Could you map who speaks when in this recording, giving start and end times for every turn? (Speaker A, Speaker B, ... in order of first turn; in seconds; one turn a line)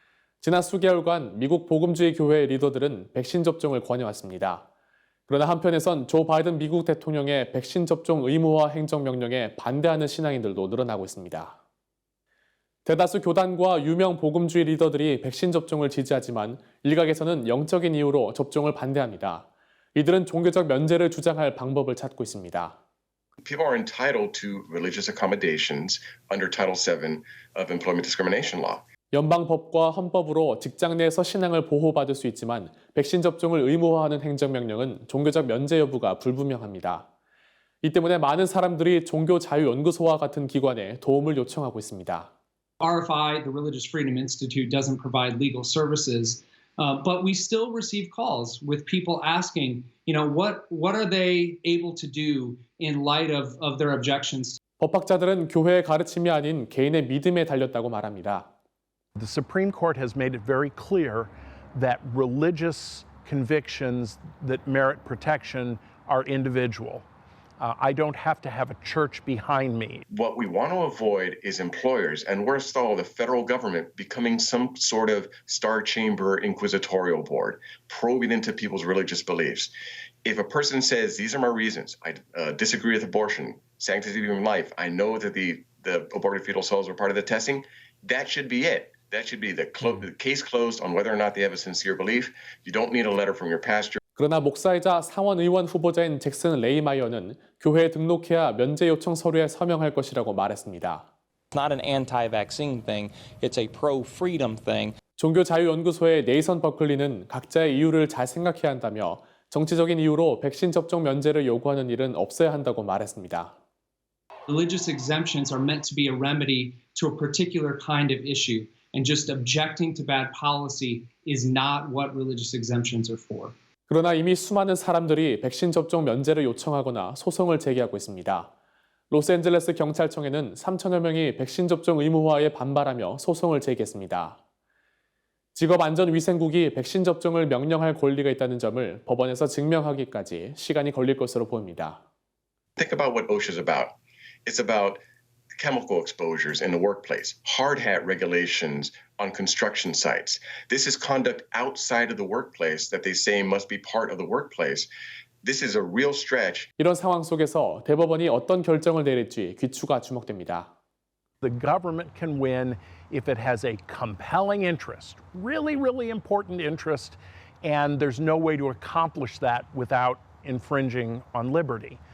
Speaker A: 0.4-4.6
Speaker A: 5.3-11.6
Speaker A: 12.8-22.8
Speaker B: 23.4-28.8
Speaker A: 29.1-37.1
Speaker A: 37.8-42.3
Speaker C: 42.8-54.6
Speaker A: 54.8-58.5
Speaker D: 59.1-67.0
Speaker D: 67.6-70.0
Speaker B: 70.1-79.7
Speaker B: 80.2-94.0
Speaker A: 94.2-101.1
Speaker E: 101.5-104.9
Speaker A: 105.2-113.5
Speaker C: 114.5-123.5
Speaker A: 123.9-128.5
Speaker A: 129.1-134.4
Speaker A: 135.5-142.0
Speaker B: 142.8-145.0
Speaker B: 145.6-154.9
Speaker B: 155.4-156.7
Speaker A: 156.8-160.7
Speaker D: 161.4-172.0